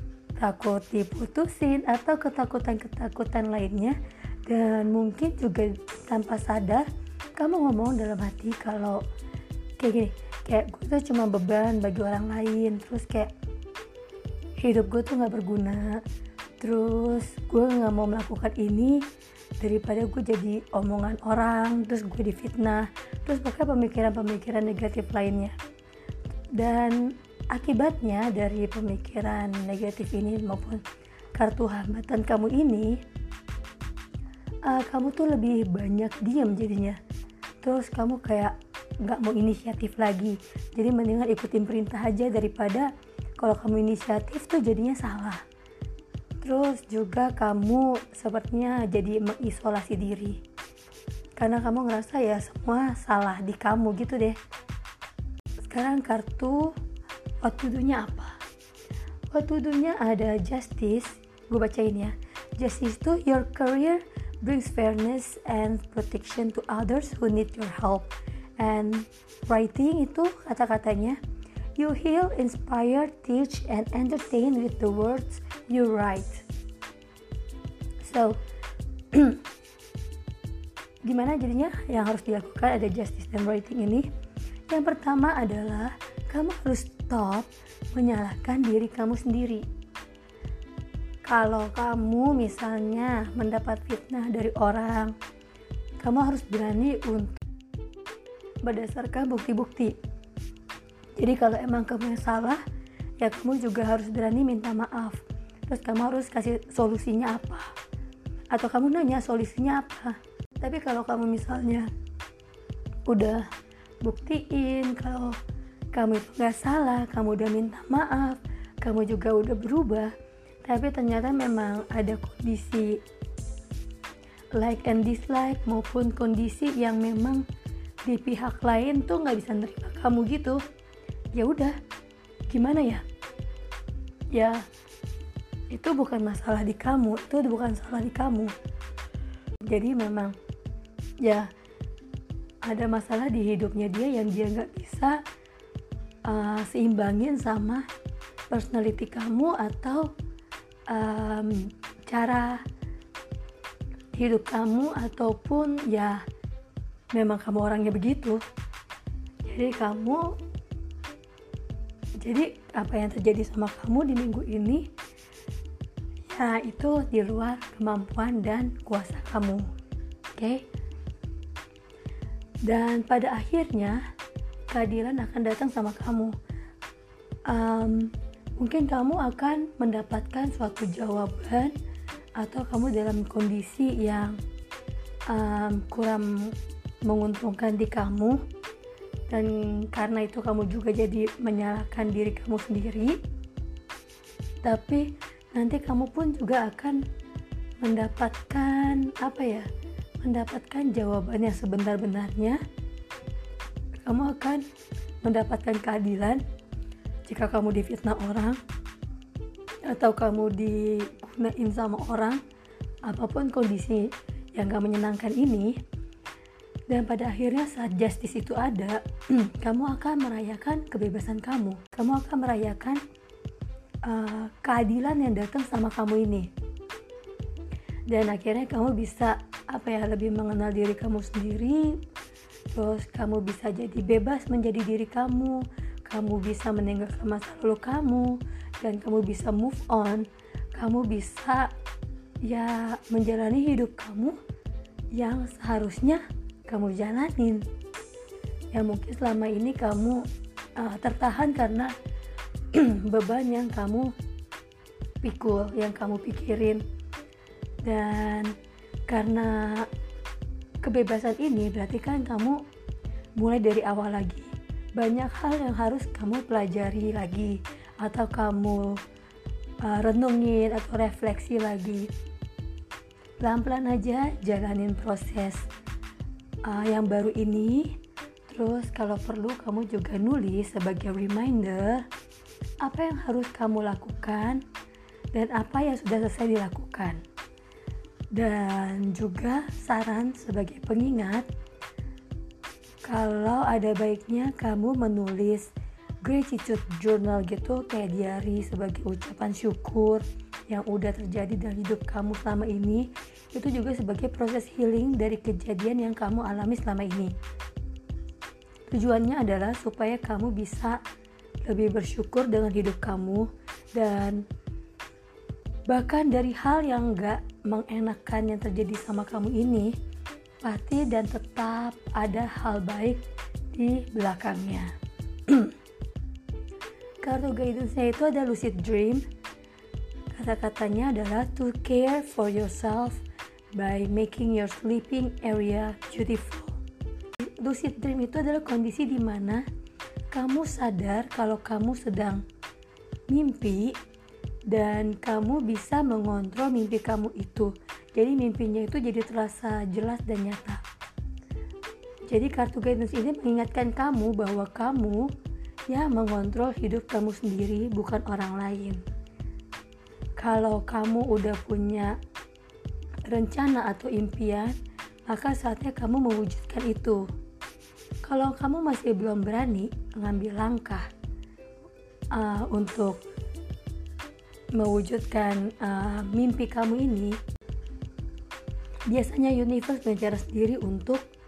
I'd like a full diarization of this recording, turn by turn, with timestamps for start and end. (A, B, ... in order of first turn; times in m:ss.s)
0:00.4-0:09.0 A
0:09.8-0:13.3 A
0:14.6-0:16.0 A
0:16.6-0:25.5 A
0:26.5-0:30.8 A
0:31.3-0:33.0 A
0:34.6-0:37.0 A
0:37.6-0:45.4 A
0:46.4-0:50.4 A
0:51.4-0:54.4 A
0:55.6-0:56.8 A
0:57.4-0:58.4 A
0:59.3-1:11.2 A
1:11.8-1:16.4 A
1:18.0-1:18.4 A
1:19.1-1:19.4 A
1:21.0-1:24.1 A
1:24.7-1:29.6 A
1:31.2-1:35.1 A
1:36.0-1:37.4 A
1:38.6-1:40.0 A
1:41.2-1:42.6 A
1:43.2-1:47.7 A
1:48.5-1:51.9 A
1:53.1-1:53.5 A
1:54.0-1:55.4 A
1:55.9-2:03.0 A
2:04.5-2:07.4 A
2:08.0-2:10.6 A
2:11.3-2:11.8 A
2:12.5-2:13.0 A
2:14.3-2:14.6 A
2:15.7-2:18.5 A
2:19.6-2:20.4 A
2:21.2-2:21.5 A
2:22.6-2:25.2 A
2:26.2-2:27.8 A
2:28.5-2:30.1 A
2:30.9-2:32.6 A
2:34.2-2:36.2 A
2:37.1-2:38.4 A
2:39.4-2:40.4 A
2:42.2-2:44.9 A
2:46.3-2:49.7 A
2:50.4-2:50.6 A
2:52.6-2:54.0 A
2:54.7-2:56.4 A
2:57.4-3:01.7 A
3:02.4-3:04.4 A
3:05.3-3:08.4 A
3:09.3-3:13.2 A
3:14.6-3:17.0 A
3:17.8-3:19.7 A
3:20.2-3:22.6 A
3:24.0-3:24.6 A
3:25.2-3:26.4 A
3:27.2-3:28.6 A
3:29.8-3:32.4 A
3:33.0-3:35.8 A
3:36.9-3:43.0 A
3:44.0-3:46.5 A
3:48.1-3:52.0 A
3:52.7-4:01.7 A
4:02.4-4:04.4 A
4:05.1-4:07.6 A
4:08.7-4:10.2 A
4:10.8-4:11.9 A
4:12.7-4:14.1 A
4:15.2-4:16.8 A
4:17.8-4:18.5 A
4:19.1-4:19.9 A
4:20.8-4:22.6 A
4:23.4-4:29.0 A
4:29.8-4:32.1 A
4:33.4-4:35.7 A
4:36.6-4:38.0 A
4:38.5-4:42.0 A
4:42.8-4:44.6 A
4:45.3-4:47.2 A
4:48.3-4:51.5 A
4:53.0-5:07.3 A
5:08.9-5:11.0 A
5:11.6-5:14.4 A
5:15.9-5:19.9 A
5:20.6-5:24.9 A
5:25.5-5:25.7 A
5:27.2-5:29.2 A
5:30.3-5:33.2 A
5:33.7-5:36.8 A
5:37.4-5:39.6 A
5:40.3-5:42.4 A
5:43.3-5:44.0 A
5:44.7-5:50.8 A
5:52.3-5:55.3 A
5:55.9-5:59.0 A
6:00.4-6:02.2 A
6:03.3-6:07.3 A
6:08.2-6:11.1 A
6:12.3-6:13.2 A
6:14.8-6:17.4 A
6:19.1-6:21.2 A